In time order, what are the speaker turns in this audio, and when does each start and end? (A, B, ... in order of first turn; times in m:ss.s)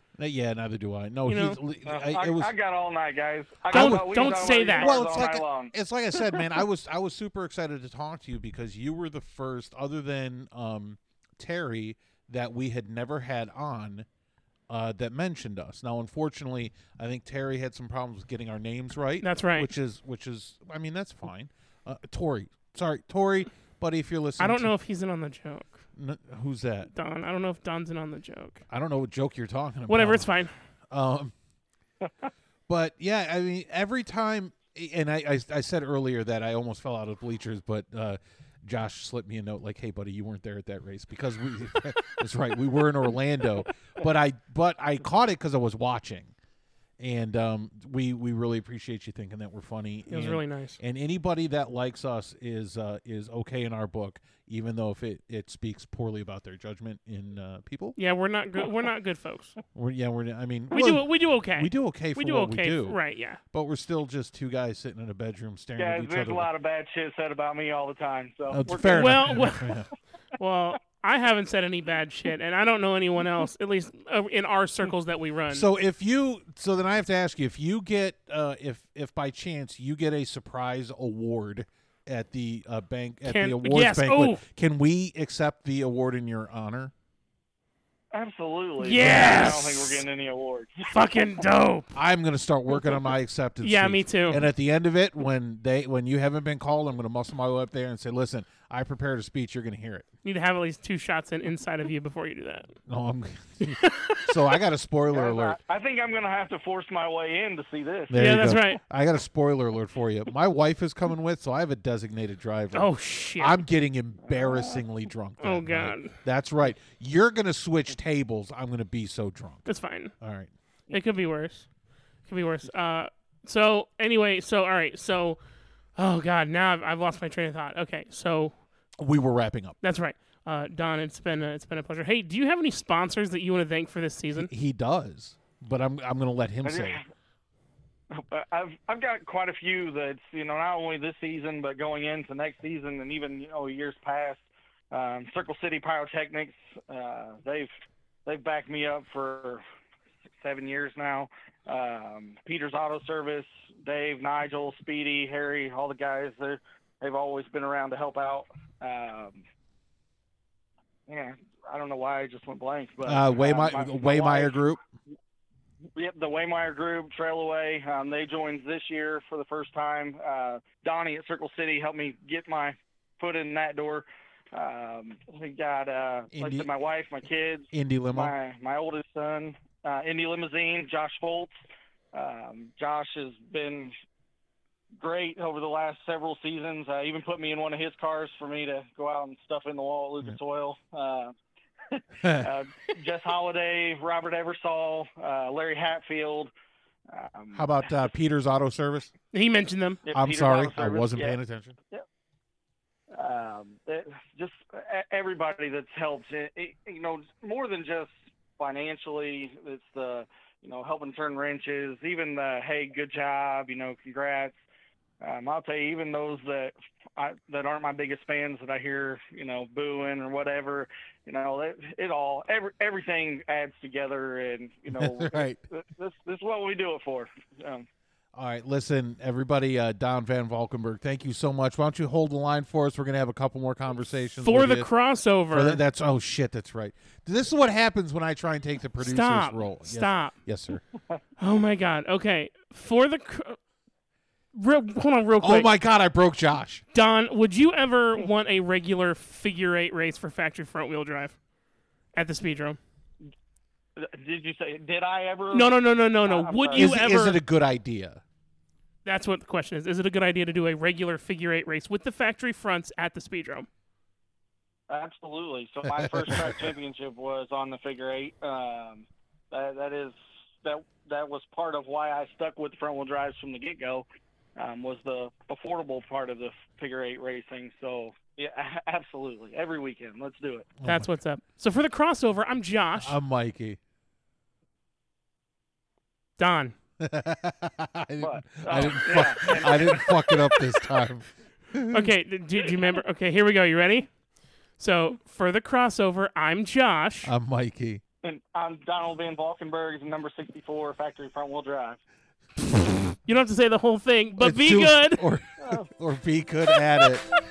0:00.2-0:02.5 A
0:01.3-0:01.6 B
0:01.9-0:05.7 C
0:03.7-0:14.1 A
0:03.7-0:05.0 B
0:14.7-0:24.7 A
0:19.2-0:19.7 B
0:24.4-0:25.8 B
0:26.0-0:26.9 A
0:26.9-0:28.6 B
0:28.7-0:30.3 A
0:29.9-0:30.5 B
0:30.9-0:31.3 A
0:32.7-0:46.3 A
0:47.0-0:58.0 A
0:50.1-0:50.8 B
0:58.0-0:59.6 B
0:59.7-1:03.0 A
1:00.7-1:03.4 B
1:03.5-1:06.5 A
1:05.8-1:09.4 C
1:08.5-1:09.9 A
1:08.7-1:09.8 B
1:10.4-1:15.6 B
1:15.5-1:26.9 A
1:23.3-1:24.4 B
1:28.1-1:31.0 C
1:28.8-1:30.0 B
1:30.9-1:32.0 B
1:31.9-1:40.1 A
1:33.6-1:34.4 B
1:40.2-1:42.7 B
1:42.9-1:45.6 A
1:43.6-1:44.4 B
1:45.1-1:48.3 C
1:48.1-1:59.7 A
1:48.1-1:48.8 B
1:52.7-1:53.6 B
1:54.3-1:54.8 C
1:55.4-1:56.2 B
1:59.7-2:00.1 B
2:00.2-2:00.5 A
2:00.9-2:01.7 B
2:02.3-2:05.4 B
2:06.0-2:08.5 B
2:09.0-2:09.8 A
2:09.8-2:14.5 B
2:14.3-2:17.0 A
2:16.6-2:17.1 C
2:18.1-2:27.7 C
2:28.3-2:29.6 C
2:30.4-2:39.4 C
2:41.1-2:44.6 C
2:43.0-2:44.8 A
2:46.0-3:01.5 C
2:56.3-2:56.7 A
2:57.7-2:58.3 A
3:02.1-3:03.9 C
3:05.0-3:11.4 C
3:11.9-3:16.5 C
3:12.2-3:12.5 A
3:17.1-3:17.7 C
3:17.5-3:19.1 A
3:19.3-3:20.0 B
3:20.1-3:21.4 C
3:20.1-3:21.8 A
3:23.1-3:34.6 C
3:35.2-3:47.9 C
3:44.9-3:45.6 A
3:48.3-3:54.9 A
3:54.4-3:55.8 B
3:55.5-4:00.8 A
3:59.0-4:00.4 B
4:01.4-4:03.6 B
4:04.6-4:05.7 B
4:05.4-4:06.8 A
4:06.9-4:11.4 B
4:12.1-4:12.8 B
4:14.0-4:16.9 C
4:15.5-4:17.4 B
4:16.8-4:18.2 A
4:19.0-4:23.7 B
4:24.9-4:40.7 C
4:26.0-4:26.7 A
4:40.8-4:41.1 A
4:40.8-4:43.2 B
4:43.0-4:43.8 A
4:46.4-4:46.7 B
4:47.0-4:52.1 A
4:48.2-4:50.6 C
4:51.9-4:54.1 B
4:54.8-4:57.3 B
4:57.2-4:58.0 A
4:58.2-5:02.0 C
5:02.7-5:03.1 A
5:03.2-5:05.2 B
5:04.4-5:07.3 A
5:05.6-5:05.9 C